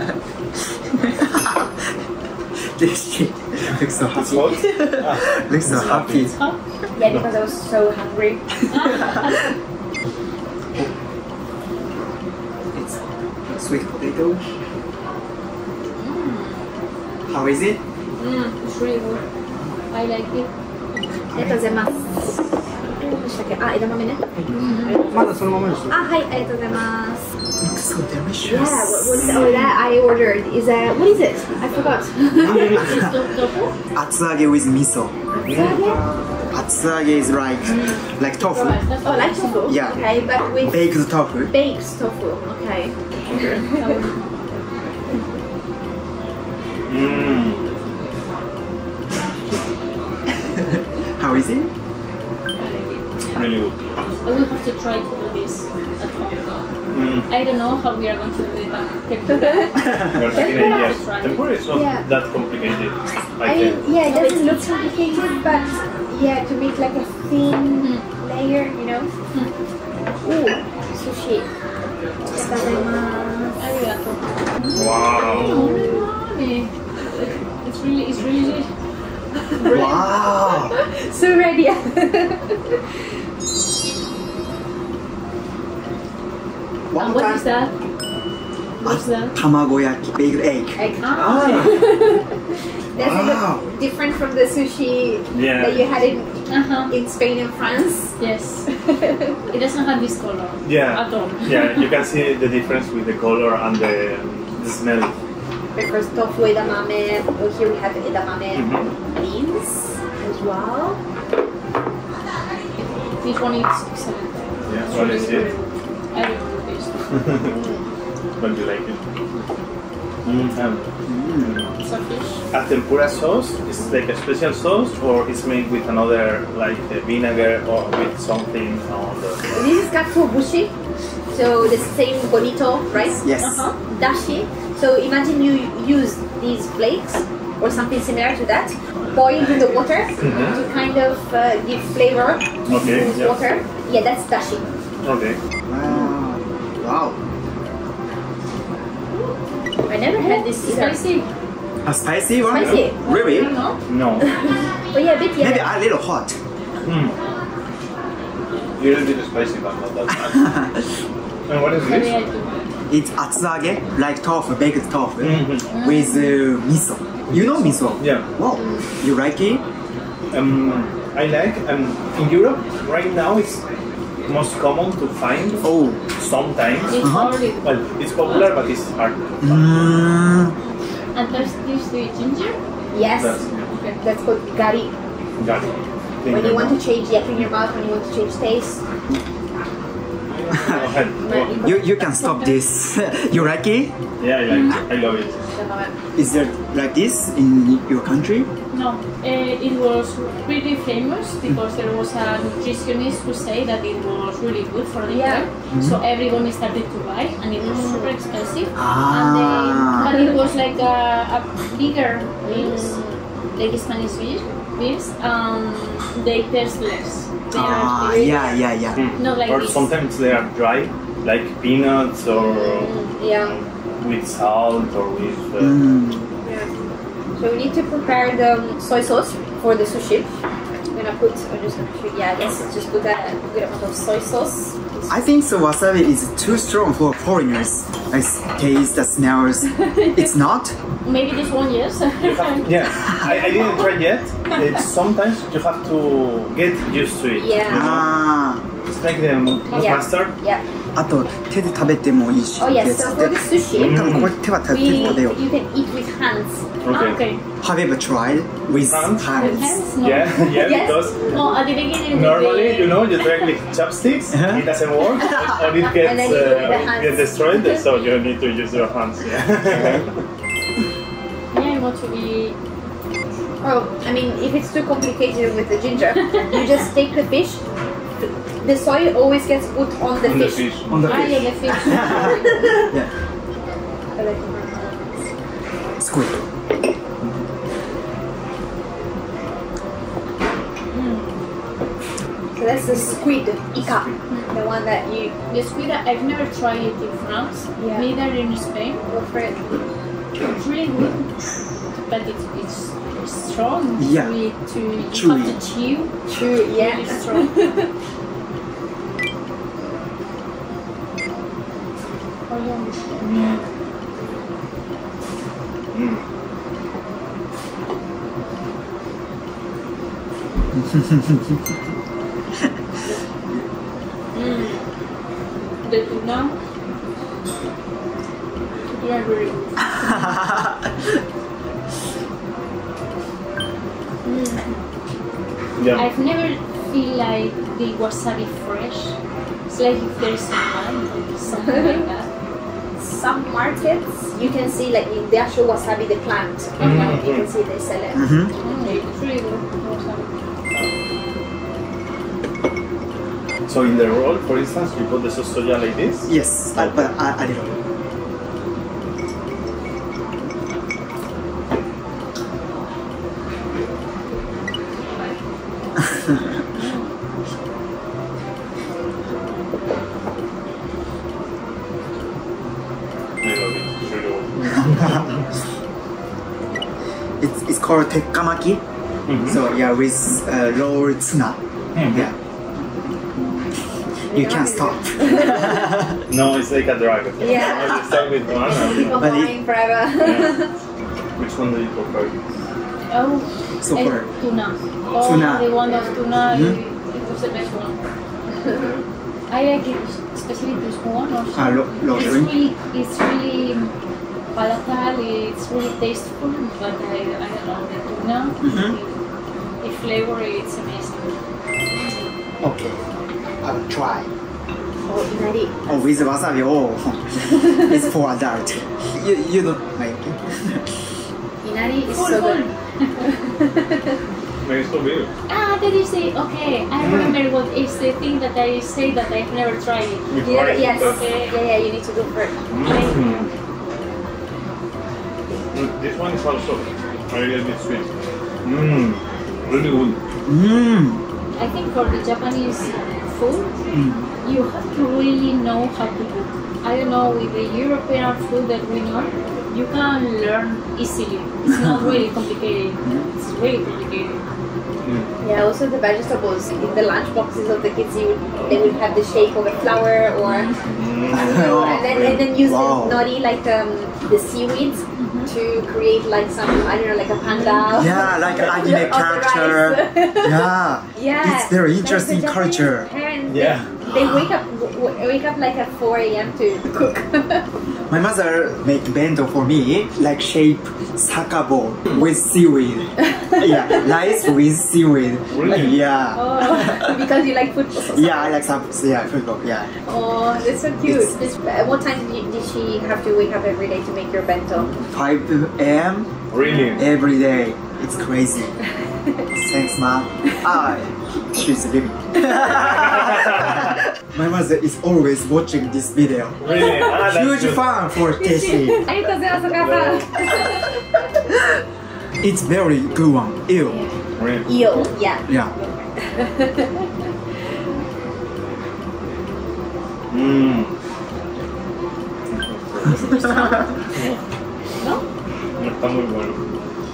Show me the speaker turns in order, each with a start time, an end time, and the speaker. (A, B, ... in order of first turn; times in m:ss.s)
0:01.0-0:01.7 A
0:02.8-0:06.3 A
0:04.1-0:06.3 B
0:06.2-0:06.6 C
0:07.0-0:09.1 D
0:08.7-0:09.4 C
0:12.7-0:14.4 A
0:16.0-0:16.7 C
0:17.3-0:17.8 A
0:18.2-0:19.2 C
0:19.9-0:20.5 C
0:21.3-0:22.4 D
0:23.0-0:24.3 D
0:24.5-0:25.1 C
0:25.9-0:27.2 D
0:27.6-0:29.3 A
0:28.4-0:33.0 D
0:29.2-0:29.7 B
0:32.4-0:33.8 C
0:33.9-0:35.1 A
0:35.3-0:36.2 D
0:35.4-0:35.8 B
0:36.5-0:38.8 A
0:37.7-0:39.8 C
0:39.0-0:40.9 D
0:39.7-0:40.1 A
0:40.6-0:41.5 A
0:41.5-0:44.0 D
0:43.3-0:43.6 B
0:43.6-0:44.2 C
0:46.9-0:47.6 B
0:51.2-0:51.7 A
0:52.6-0:53.4 C
0:53.3-0:53.8 B
0:54.2-0:56.4 C
0:56.9-0:57.3 B
0:57.3-1:01.5 C
0:59.3-1:00.8 D
0:59.9-1:03.8 B
1:01.7-1:02.0 D
1:03.4-1:09.1 D
1:04.0-1:04.8 C
1:07.8-1:08.0 C
1:10.2-1:11.4 D
1:12.3-1:13.6 D
1:13.6-1:18.7 C
1:14.7-1:15.6 B
1:15.2-1:16.0 D
1:19.5-1:22.6 D
1:19.6-1:20.0 C
1:19.6-1:20.7 A
1:26.9-1:27.4 A
1:27.0-1:27.7 C
1:28.8-1:29.3 C
1:28.8-1:31.8 A
1:30.8-1:32.3 D
1:31.0-1:31.7 C
1:32.9-1:38.1 D
1:33.0-1:33.6 A
1:35.3-1:35.9 B
1:36.5-1:36.9 C
1:38.2-1:38.6 C
1:38.8-1:39.3 D
1:39.5-1:41.8 C
1:40.6-1:45.1 B
1:45.8-1:51.0 D
1:48.5-1:48.9 B
1:52.8-1:57.2 C
1:54.7-1:55.5 B
1:57.1-1:57.6 B
1:57.4-1:57.8 D
1:58.4-1:59.0 B
2:00.2-2:01.7 B
2:01.0-2:01.6 A
2:01.8-2:02.4 C
2:02.5-2:09.6 B
2:09.5-2:10.7 D
2:11.3-2:13.2 D
2:13.2-2:13.6 A
2:13.4-2:13.8 C
2:13.8-2:24.7 D
2:20.2-2:20.6 B
2:22.7-2:23.4 B
2:22.7-2:23.1 A
2:25.0-2:25.4 B
2:25.7-2:27.2 A
2:29.9-2:31.0 D
2:30.2-2:31.3 C
2:31.8-2:33.5 A
2:32.5-2:33.1 D
2:32.7-2:33.8 C
2:33.9-2:34.2 B
2:34.4-2:35.7 D
2:35.4-2:36.4 A
2:36.8-2:37.1 B
2:38.8-2:40.6 B
2:41.5-2:42.1 B
2:41.8-2:42.7 C
2:42.9-2:49.6 A
2:45.2-2:45.6 B
2:45.7-2:46.4 C
2:47.3-2:48.3 B
2:48.5-2:48.9 D
2:50.3-2:53.6 B
2:54.3-2:55.6 B
2:55.6-2:56.0 A
2:56.2-2:57.0 B
2:56.9-2:57.6 C
2:57.0-2:57.3 A
2:57.6-2:59.8 B
2:59.4-3:00.5 A
3:01.1-3:02.6 C
3:02.9-3:03.4 D
3:03.2-3:03.6 B
3:04.0-3:04.9 D
3:05.4-3:06.8 B
3:06.3-3:08.8 D
3:10.3-3:11.8 B
3:10.7-3:12.2 D
3:11.6-3:13.9 A
3:12.2-3:12.6 C
3:14.2-3:15.4 B
3:14.5-3:14.8 C
3:14.9-3:16.0 D
3:16.2-3:18.5 A
3:18.7-3:33.0 C
3:25.1-3:25.5 D
3:25.7-3:26.0 A
3:27.6-3:28.1 D
3:28.8-3:30.1 A
3:30.0-3:30.4 D
3:32.4-3:33.2 D
3:33.6-3:38.6 C
3:37.5-3:39.0 A
3:38.9-3:45.8 B
3:39.2-3:39.9 C
3:42.3-3:43.6 D
3:45.6-3:46.3 A
3:46.4-3:46.7 D
3:47.4-3:50.3 D
3:50.9-3:55.2 D
3:55.1-4:00.8 A
3:59.9-4:00.3 D
4:01.0-4:03.9 C
4:02.2-4:08.1 B
4:07.3-4:08.0 D
4:07.7-4:08.6 A
4:08.9-4:10.3 B
4:09.7-4:10.6 D
4:11.0-4:15.4 A
4:12.6-4:16.6 D
4:13.8-4:14.3 B
4:16.8-4:17.2 B
4:16.9-4:17.4 C
4:17.6-4:19.8 A
4:18.8-4:19.3 B
4:19.3-4:20.4 C
4:20.0-4:21.6 B
4:20.4-4:21.2 D
4:21.3-4:23.5 C
4:22.1-4:30.2 B
4:24.3-4:24.6 A
4:25.9-4:27.8 D
4:29.7-4:30.0 A
4:31.5-4:32.6 C
4:33.6-4:37.6 D
4:38.6-4:40.7 D
4:40.2-4:41.3 B
4:40.9-4:43.1 A
4:41.0-4:42.7 C
4:41.8-4:42.7 D
4:44.2-4:45.2 D
4:46.0-4:46.4 A
4:50.9-4:51.2 C
4:52.6-4:55.3 D
4:55.5-4:59.0 C
4:57.8-4:58.1 D
4:59.1-4:59.6 D
5:00.4-5:01.3 C
5:02.1-5:06.1 C
5:04.0-5:04.3 A
5:05.1-5:05.5 A
5:06.3-5:07.9 D
5:06.7-5:07.5 C
5:12.5-5:13.2 C
5:13.2-5:13.6 B
5:15.9-5:16.2 B
5:20.8-5:21.5 A
5:24.3-5:24.8 D
5:25.8-5:26.6 C
5:28.9-5:30.4 C
5:34.2-5:34.6 D
5:35.8-5:36.0 B
5:35.9-5:39.2 C
5:39.7-5:42.3 C
5:41.6-5:42.0 D
5:43.0-5:49.0 D
5:46.8-5:47.2 C
5:46.8-5:47.5 B
5:48.1-5:48.5 A
5:48.6-5:50.4 C
5:53.7-5:57.8 B
5:56.3-5:57.6 A
6:06.8-6:07.1 C
6:13.4-6:15.4 B
6:17.4-6:18.8 A
6:19.3-6:19.6 B
6:19.4-6:22.3 A
6:21.9-6:22.3 B
6:24.3-6:25.9 D
6:24.3-6:26.2 A
6:26.3-6:29.2 B
6:27.4-6:30.7 D
6:29.0-6:29.6 A
6:30.2-6:30.6 B
6:31.4-6:32.3 B
6:33.1-6:38.0 C
6:33.8-6:34.2 A
6:35.2-6:35.7 A
6:35.6-6:36.2 D
6:36.4-6:36.8 A
6:39.5-6:43.9 C
6:41.5-6:42.5 A
6:44.5-6:49.1 C
6:48.6-6:49.0 A
6:49.8-6:51.3 C
6:52.6-6:53.0 A
6:53.6-6:54.3 A
6:55.0-6:56.1 D
6:55.9-7:00.8 A
7:01.6-7:02.7 D
7:02.1-7:02.7 C
7:03.4-7:04.1 D
7:04.6-7:05.3 B
7:05.5-7:11.6 C
7:07.0-7:07.4 B
7:10.3-7:11.2 B
7:10.4-7:12.6 D
7:12.7-7:13.5 B
7:12.8-7:13.5 C
7:15.7-7:18.1 B
7:18.6-7:20.2 B
7:20.4-7:21.2 A
7:21.6-7:23.7 C
7:23.9-7:24.2 A
7:24.4-7:34.4 C
7:35.0-7:35.3 B
7:35.4-7:40.7 D
7:40.5-7:41.0 C
7:41.0-7:42.5 B
7:41.3-7:57.7 D
7:41.3-7:43.2 A
7:45.2-7:45.5 C
7:47.6-7:48.0 C
7:47.9-7:53.1 A
7:48.4-7:48.7 B
7:53.4-7:53.9 B
7:54.1-7:54.4 A
7:58.1-8:07.3 A
8:05.5-8:06.0 B
8:06.3-8:08.6 D
8:08.1-8:09.9 A
8:10.0-8:14.9 D
8:11.0-8:11.4 A
8:14.9-8:16.3 A
8:16.5-8:17.0 B
8:17.0-8:18.7 A
8:19.5-8:29.1 A
8:22.9-8:23.8 B
8:26.6-8:27.9 B
8:26.7-8:27.0 C
8:28.2-8:31.0 D
8:32.4-8:34.0 A
8:34.4-8:34.7 B
8:34.6-8:37.1 D
8:35.5-8:35.7 A
8:40.3-8:40.9 B
8:42.5-8:44.4 B
8:43.0-8:43.9 C
8:45.0-8:45.2 C
8:45.8-8:46.6 B